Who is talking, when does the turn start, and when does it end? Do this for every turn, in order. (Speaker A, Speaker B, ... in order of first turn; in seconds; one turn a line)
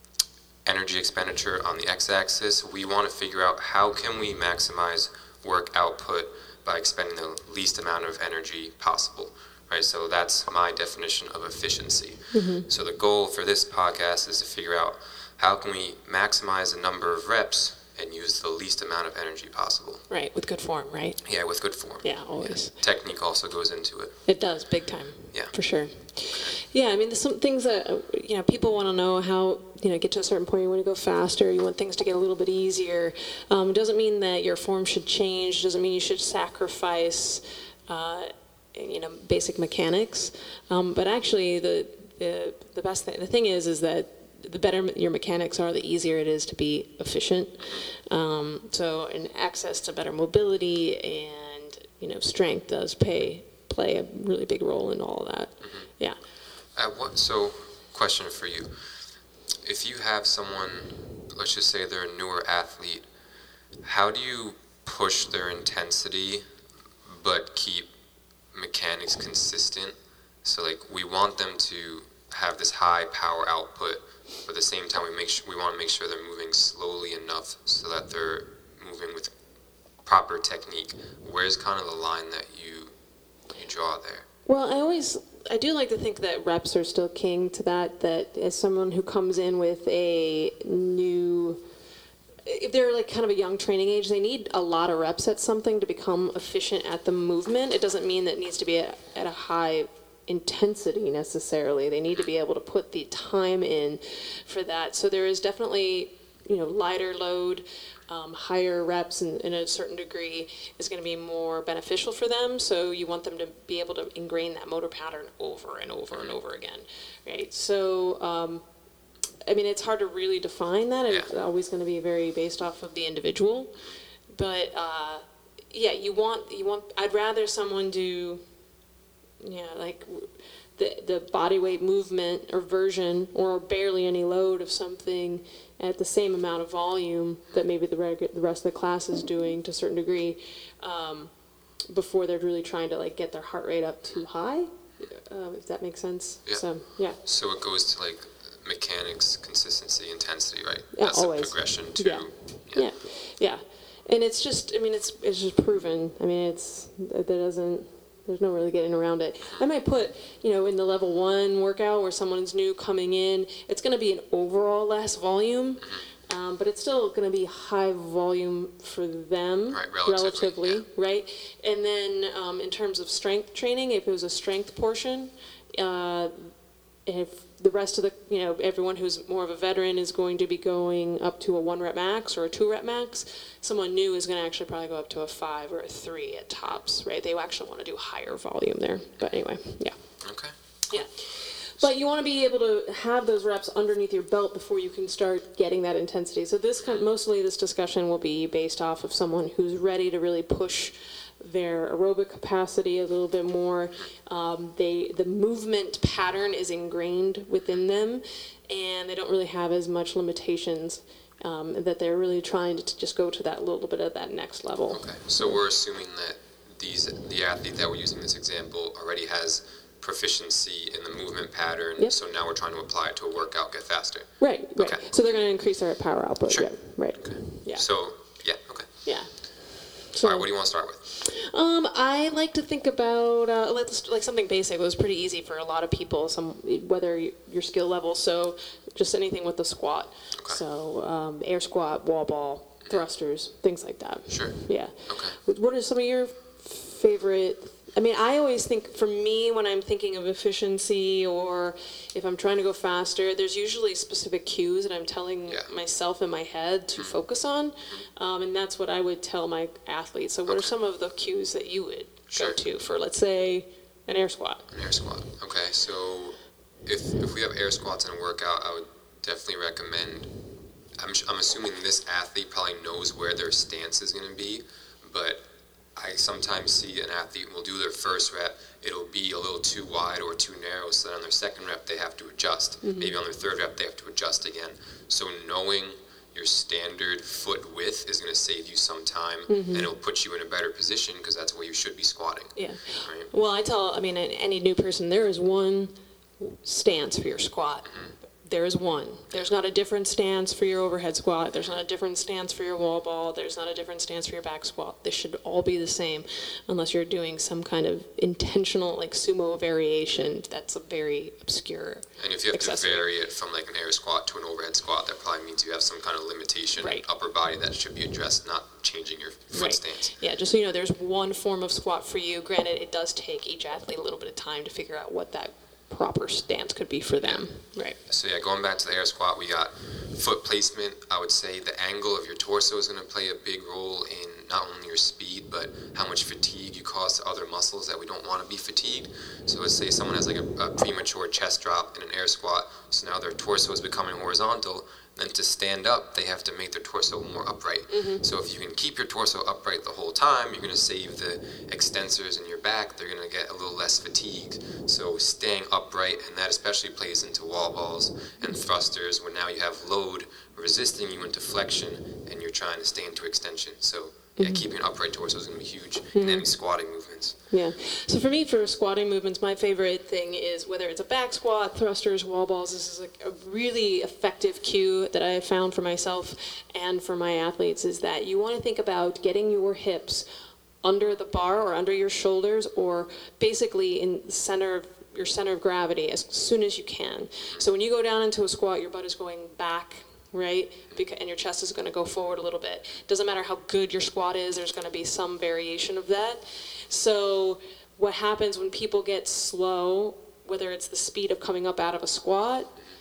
Speaker A: 0.7-20.1
Speaker B: 12.3-12.7
Speaker B: 20.1-21.2
Speaker A: 21.2-24.2
Speaker B: 22.0-22.7
Speaker B: 24.3-56.2
Speaker A: 26.2-26.6
Speaker A: 55.6-55.9
Speaker A: 56.8-59.0
Speaker A: 59.6-63.0
Speaker A: 63.8-66.4
Speaker A: 67.1-67.9
Speaker A: 68.5-79.3
Speaker A: 80.0-82.9
Speaker A: 83.6-84.3
Speaker B: 84.5-91.6
Speaker B: 92.5-118.6
Speaker B: 119.5-123.8
Speaker B: 124.3-128.4
Speaker B: 129.4-141.3
Speaker B: 141.9-147.2
Speaker A: 147.2-152.9
Speaker B: 150.9-176.5
Speaker A: 169.7-170.8
Speaker B: 177.1-190.0
Speaker A: 190.2-191.0
Speaker B: 190.9-215.6
Speaker A: 214.9-225.1
Speaker B: 224.4-227.8
Speaker A: 226.5-228.9
Speaker B: 229.1-230.5
Speaker A: 230.2-231.0
Speaker B: 231.1-264.7
Speaker A: 244.3-245.4
Speaker A: 262.3-262.6
Speaker A: 264.7-270.3
Speaker A: 271.0-293.3
Speaker B: 282.8-283.1
Speaker B: 289.5-289.9
Speaker B: 292.6-313.1
Speaker A: 312.2-320.1
Speaker B: 316.8-317.0
Speaker B: 319.5-328.0
Speaker A: 328.1-367.4
Speaker B: 347.9-348.2
Speaker B: 364.4-364.7
Speaker B: 366.1-366.5
Speaker B: 367.5-380.2
Speaker B: 380.8-402.7